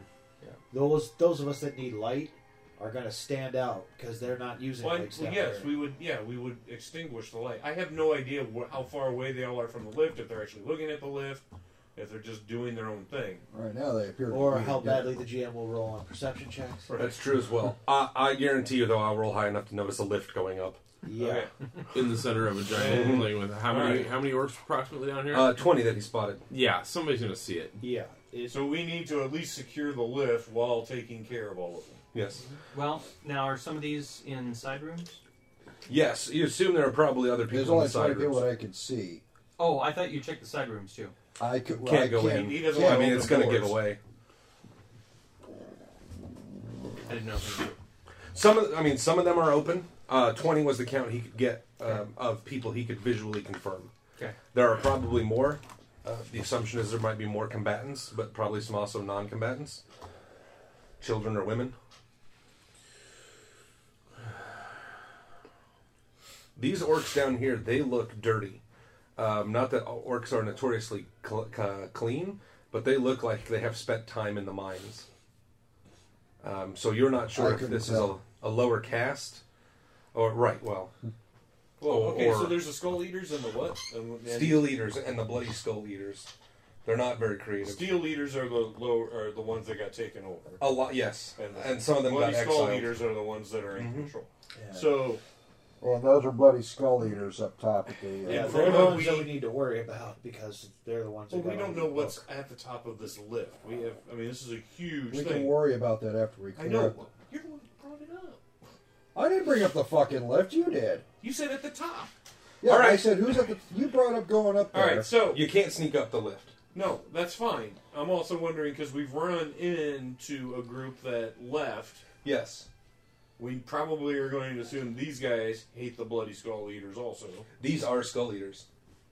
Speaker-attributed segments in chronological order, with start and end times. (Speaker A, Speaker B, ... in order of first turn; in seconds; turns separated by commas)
Speaker A: 0.7-5.8, Speaker B: 4.8-11.4, Speaker B: 11.9-13.4, Speaker C: 13.5-15.2, Speaker A: 14.3-16.9, Speaker B: 16.9-17.2, Speaker D: 17.0-20.8, Speaker A: 21.0-21.5, Speaker B: 21.2-21.5, Speaker E: 21.9-25.6, Speaker B: 22.7-24.2, Speaker D: 22.9-23.3, Speaker D: 25.3-26.4, Speaker E: 26.5-27.8, Speaker A: 27.8-28.7, Speaker B: 28.5-32.0, Speaker D: 32.1-32.4, Speaker F: 32.7-35.2, Speaker D: 35.9-38.5, Speaker C: 37.5-39.2, Speaker F: 39.6-41.1, Speaker C: 41.4-43.3, Speaker D: 41.8-44.0, Speaker B: 42.3-43.9, Speaker F: 47.1-47.8, Speaker D: 48.3-53.9, Speaker D: 54.5-59.8, Speaker D: 61.0-61.8, Speaker D: 66.6-68.6, Speaker D: 69.2-75.1, Speaker D: 76.4-79.4, Speaker C: 77.3-78.2, Speaker D: 80.1-80.9, Speaker B: 81.8-84.8, Speaker D: 81.8-82.6, Speaker D: 84.2-86.3, Speaker D: 86.8-88.0, Speaker B: 87.6-95.2, Speaker D: 90.6-93.0, Speaker D: 93.7-94.1, Speaker A: 94.5-95.1, Speaker C: 95.8-99.0, Speaker B: 98.2-99.4, Speaker A: 98.3-102.2, Speaker B: 101.3-105.6, Speaker C: 105.1-107.0, Speaker B: 106.5-108.4, Speaker C: 109.2-111.0, Speaker B: 111.2-112.1, Speaker C: 112.6-115.1, Speaker D: 112.6-113.2, Speaker B: 114.7-115.4, Speaker D: 115.3-116.5, Speaker B: 116.7-122.0, Speaker D: 122.2-122.7, Speaker B: 123.4-127.5, Speaker D: 127.6-128.7